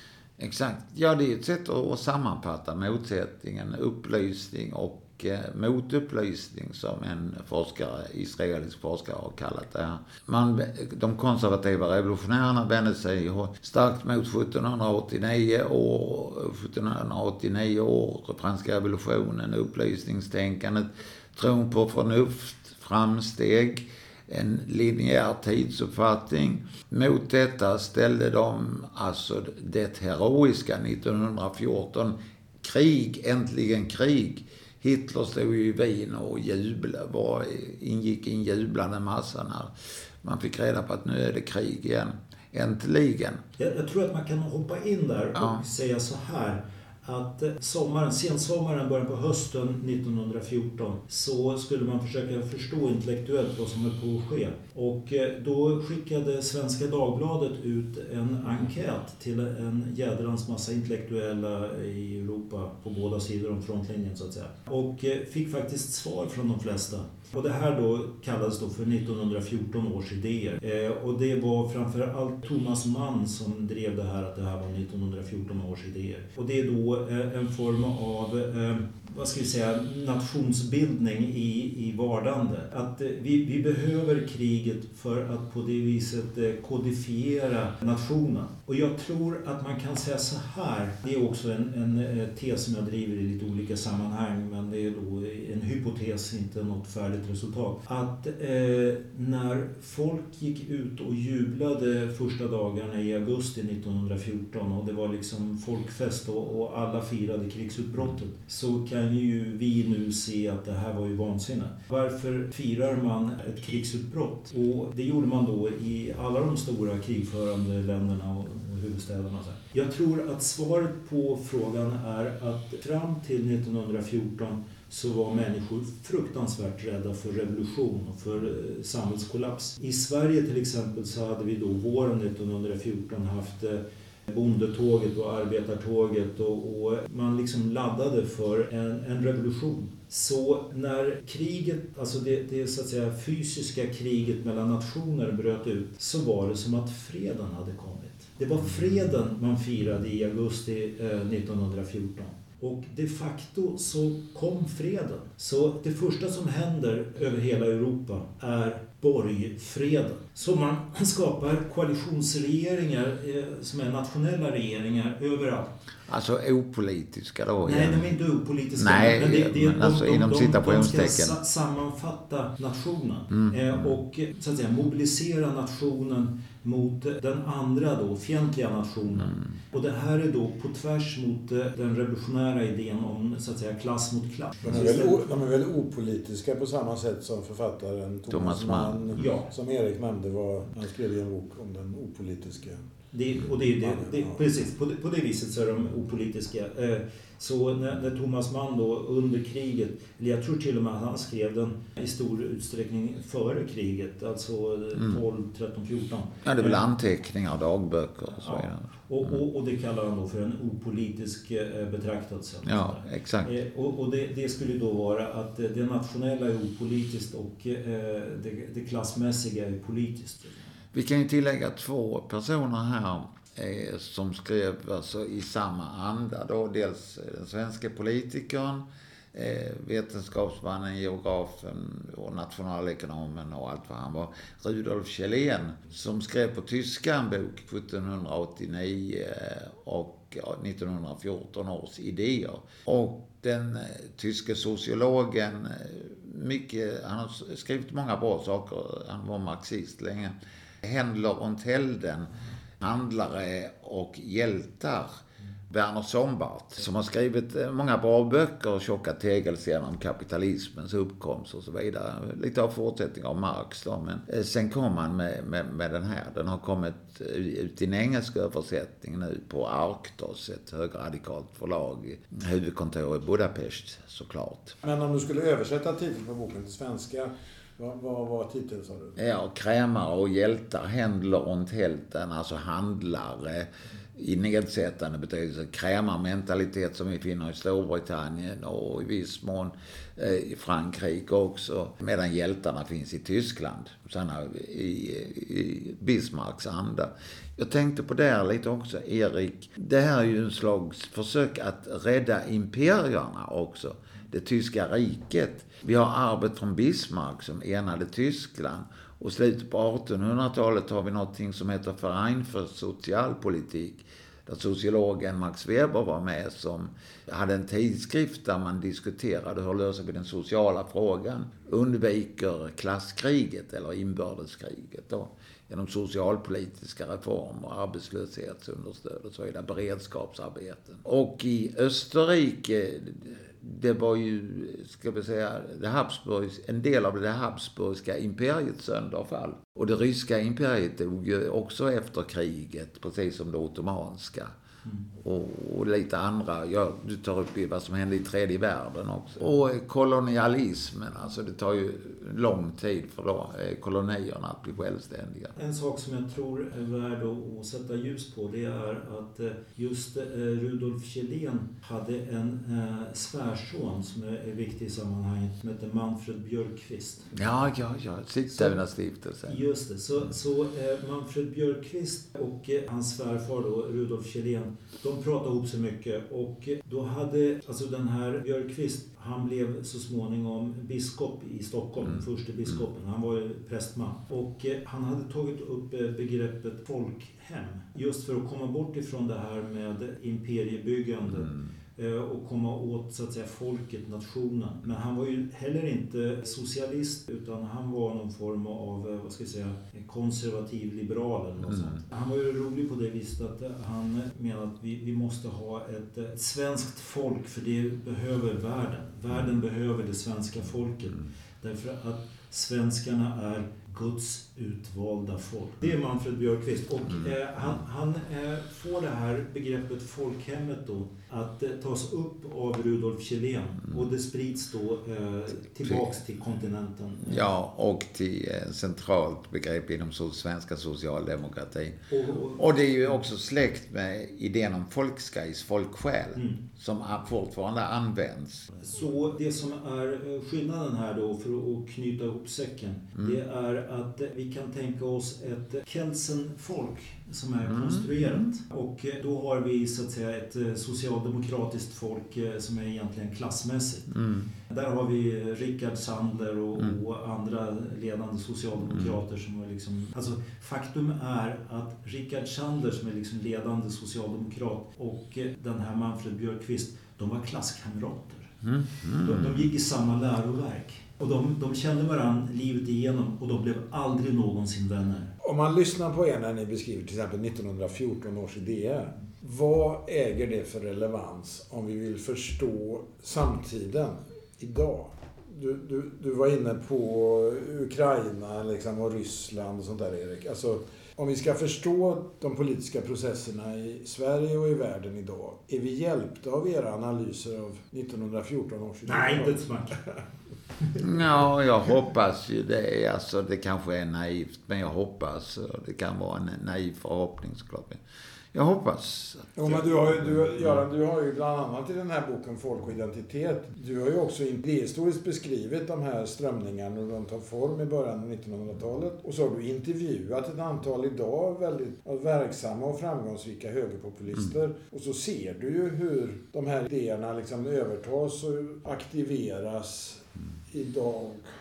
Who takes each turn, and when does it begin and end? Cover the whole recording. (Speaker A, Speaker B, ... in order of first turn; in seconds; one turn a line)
Speaker A: 0.4-43.4
Speaker B: 43.6-165.8
Speaker A: 45.4-45.6
Speaker A: 166.1-168.2
Speaker B: 167.7-185.2
Speaker A: 168.8-171.4
Speaker A: 173.3-173.8
Speaker C: 184.6-192.8
Speaker A: 188.3-189.2
Speaker B: 189.2-189.5
Speaker B: 193.1-206.8
Speaker C: 193.8-194.4
Speaker A: 206.4-208.9
Speaker B: 208.3-220.7
Speaker A: 212.7-213.5
Speaker A: 220.9-255.1
Speaker A: 255.7-274.8
Speaker C: 274.8-279.2
Speaker A: 279.2-344.5
Speaker A: 345.1-355.5
Speaker B: 355.6-367.3
Speaker A: 367.3-369.6
Speaker B: 368.5-368.8
Speaker B: 369.5-427.4
Speaker A: 427.3-438.8
Speaker B: 432.1-432.7
Speaker B: 436.4-436.6
Speaker B: 438.8-454.1
Speaker A: 447.7-448.4
Speaker A: 454.1-454.5
Speaker B: 454.7-468.5
Speaker A: 468.6-469.6
Speaker B: 469.2-475.3
Speaker C: 475.4-500.2
Speaker B: 499.1-500.0
Speaker A: 501.0-508.0
Speaker A: 508.5-510.0
Speaker C: 509.6-531.5